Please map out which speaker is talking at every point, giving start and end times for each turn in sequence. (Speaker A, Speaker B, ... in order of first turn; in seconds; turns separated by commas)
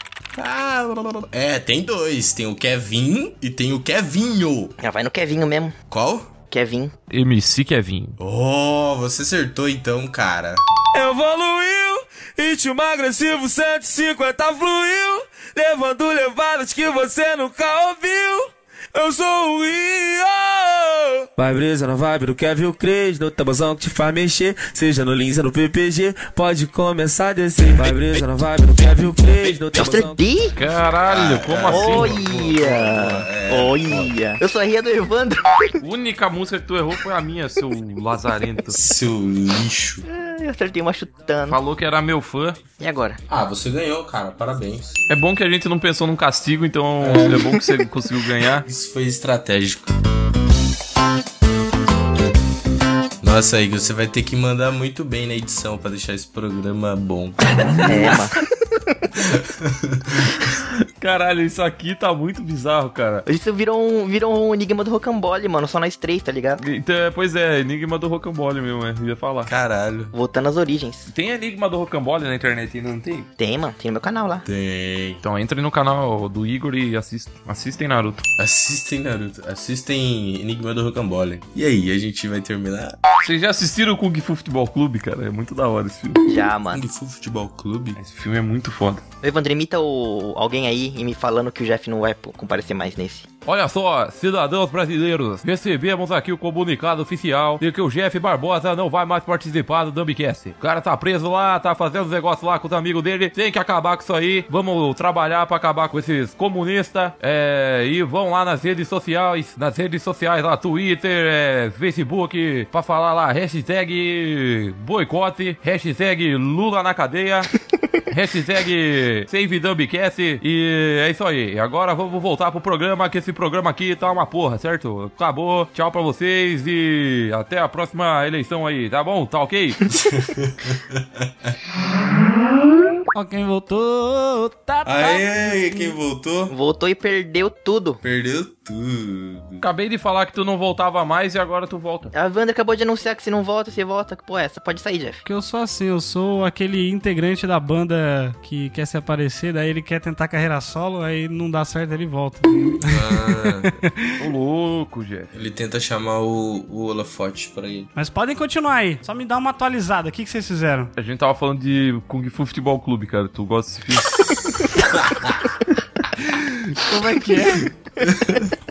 Speaker A: 0.3-4.7, Speaker B: 4.8-5.8, Speaker A: 5.9-6.3, Speaker B: 6.5-6.9, Speaker C: 7.1-8.2, Speaker A: 8.2-10.6, Speaker D: 10.9-30.2, Speaker B: 29.7-30.5, Speaker C: 30.6-32.1, Speaker A: 31.1-34.1, Speaker B: 31.7-35.7, Speaker C: 35.8-38.8, Speaker A: 38.7-40.0, Speaker B: 40.1-41.6, Speaker C: 41.5-42.6, Speaker B: 42.8-43.2, Speaker A: 43.3-45.0, Speaker C: 45.1-48.6, Speaker A: 47.0-47.6, Speaker A: 48.6-49.9, Speaker A: 53.2-57.4, Speaker B: 57.8-58.4, Speaker A: 59.2-60.4, Speaker C: 61.0-63.2, Speaker B: 63.2-66.6, Speaker C: 66.6-69.5, Speaker A: 69.5-70.1, Speaker B: 70.1-71.1, Speaker C: 71.1-73.3, Speaker B: 73.4-74.4, Speaker A: 74.4-75.2, Speaker C: 75.2-78.2, Speaker A: 78.4-83.0, Speaker C: 83.2-86.2, Speaker B: 86.2-86.8, Speaker A: 86.7-88.0, Speaker C: 88.0-89.0, Speaker B: 89.2-93.3, Speaker C: 93.5-117.5, Speaker C: 118.1-129.9, Speaker A: 130.1-131.5, Speaker E: 133.1-135.9, Speaker A: 134.8-136.5, Speaker B: 136.5-138.0, Speaker A: 138.0-139.6, Speaker C: 139.6-142.1, Speaker B: 142.1-145.2, Speaker E: 145.2-153.9, Speaker A: 152.8-153.7, Speaker C: 154.2-155.3, Speaker A: 155.3-157.9, Speaker E: 157.9-160.9, Speaker C: 160.9-164.4, Speaker A: 164.9-165.4, Speaker E: 166.2-167.8, Speaker A: 168.1-168.4